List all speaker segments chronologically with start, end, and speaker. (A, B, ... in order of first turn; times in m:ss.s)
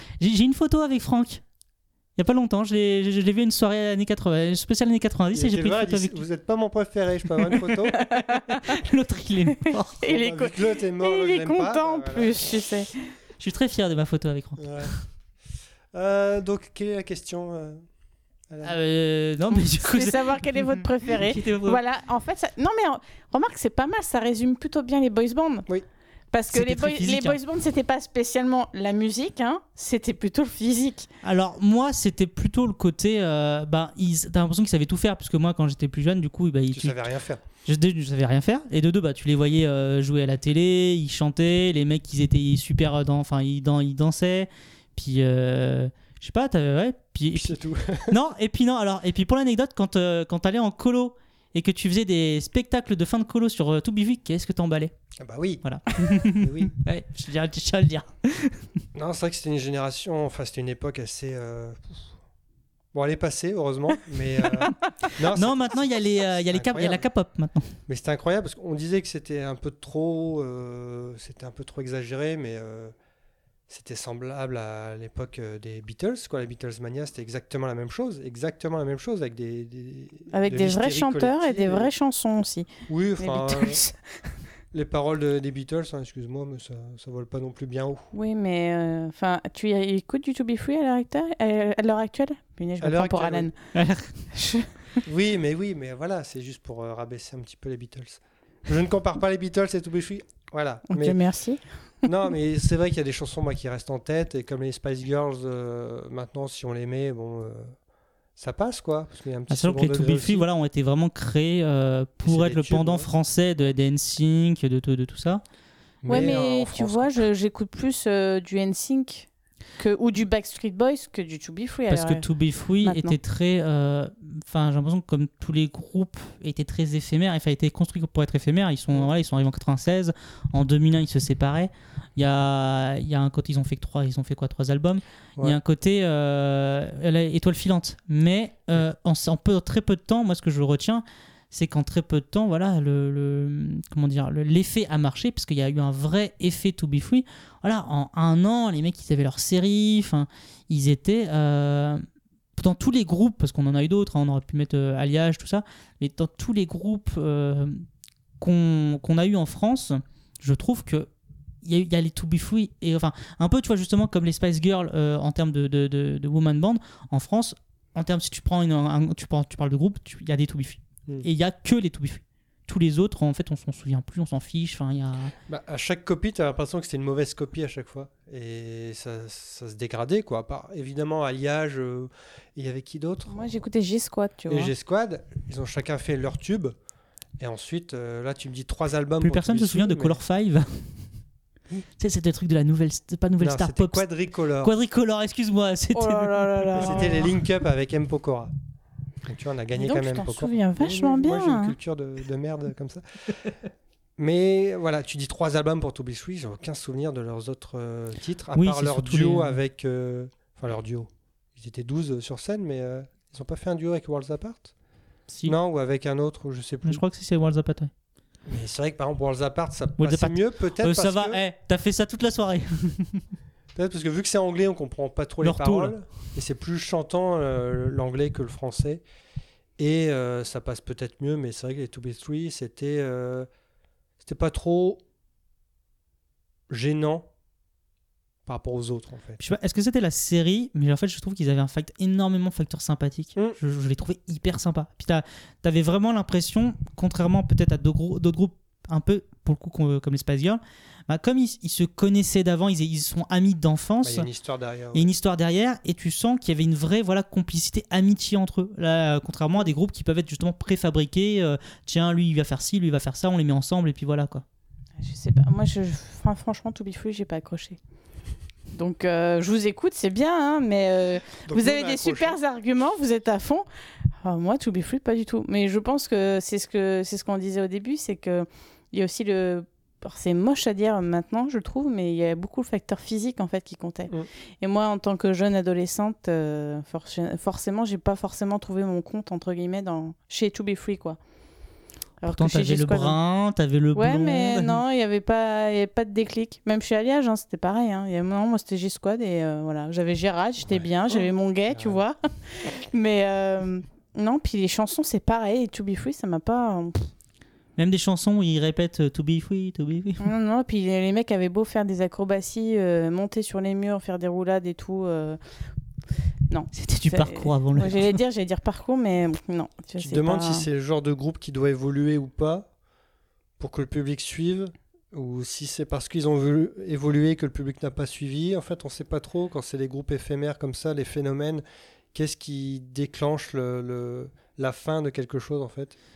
0:00.2-0:01.4 A
0:02.2-0:06.2 A
0:05.3-0:08.0 B
0:08.6-0:10.2 A
0:10.0-0:12.9 C
0:10.1-0:12.3 B
0:13.4-0:15.0 A
0:14.6-0:14.9 B
0:15.9-0:17.9 B
0:18.5-0:18.7 B
0:18.6-0:21.8 A
0:19.8-0:25.7 C
0:26.3-0:31.1 C
0:26.5-0:27.4 A
0:31.2-0:37.0 A
0:36.7-0:37.4 B
0:37.6-0:47.5 A
0:47.3-0:48.1 B
0:48.0-0:54.9 A
0:55.2-0:55.6 B
0:55.6-0:58.6 A
0:56.4-0:56.7 B
0:58.9-1:02.1 B
1:02.9-1:07.0 B
1:05.2-1:07.7 A
1:07.9-1:12.9 B
1:13.7-1:21.9 B
1:20.3-1:22.7 C
1:22.9-1:23.8 B
1:23.2-1:24.0 C
1:24.7-1:28.0 B
1:28.1-1:33.5 C
1:32.8-1:33.5 B
1:33.7-1:34.2 A
1:34.3-1:34.7 C
1:35.0-1:41.2 B
1:40.9-1:41.6 C
1:42.0-1:47.8 B
1:48.4-1:50.5 B
1:49.5-1:55.4 A
1:52.2-1:53.1 B
1:56.0-1:57.2 B
1:56.1-2:02.2 C
2:01.9-2:32.0 A
2:02.8-2:03.1 C
2:32.6-2:37.8 A
2:38.4-2:41.1 A
2:41.6-2:55.3 A
2:55.5-3:03.5 B
3:03.3-3:04.7 C
3:04.5-3:06.8 B
3:07.4-3:10.2 B
3:09.2-3:11.2 A
3:12.0-3:14.0 A
3:13.4-3:14.7 B
3:14.6-3:17.1 A
3:15.9-3:17.3 C
3:16.8-3:18.5 B
3:19.2-3:23.0 B
3:19.8-3:21.7 C
3:24.2-3:34.7 B
3:28.6-3:29.5 A
3:35.3-3:35.5 A
3:35.4-3:37.0 B
3:36.8-3:37.9 A
3:38.4-3:41.4 B
3:40.0-3:43.2 A
3:43.7-3:49.0 B
3:45.4-3:46.2 A
3:49.8-3:53.5 B
3:54.2-3:55.0 B
3:56.7-3:57.3 B
3:58.4-3:59.4 B
3:59.4-4:14.2 A
4:14.0-4:15.1 B
4:14.9-4:24.4 A
4:25.0-4:27.8 C
4:28.7-4:33.6 C
4:31.5-4:32.4 B
4:34.2-4:51.2 C
4:52.2-4:53.2 C
4:52.3-4:54.8 A
4:53.9-5:07.1 C
5:00.6-5:02.0 B
5:07.8-5:10.3 A
5:10.2-5:15.4 C
5:16.5-5:20.6 C
5:16.7-5:18.2 A
5:20.0-5:22.7 B
5:23.6-5:36.0 B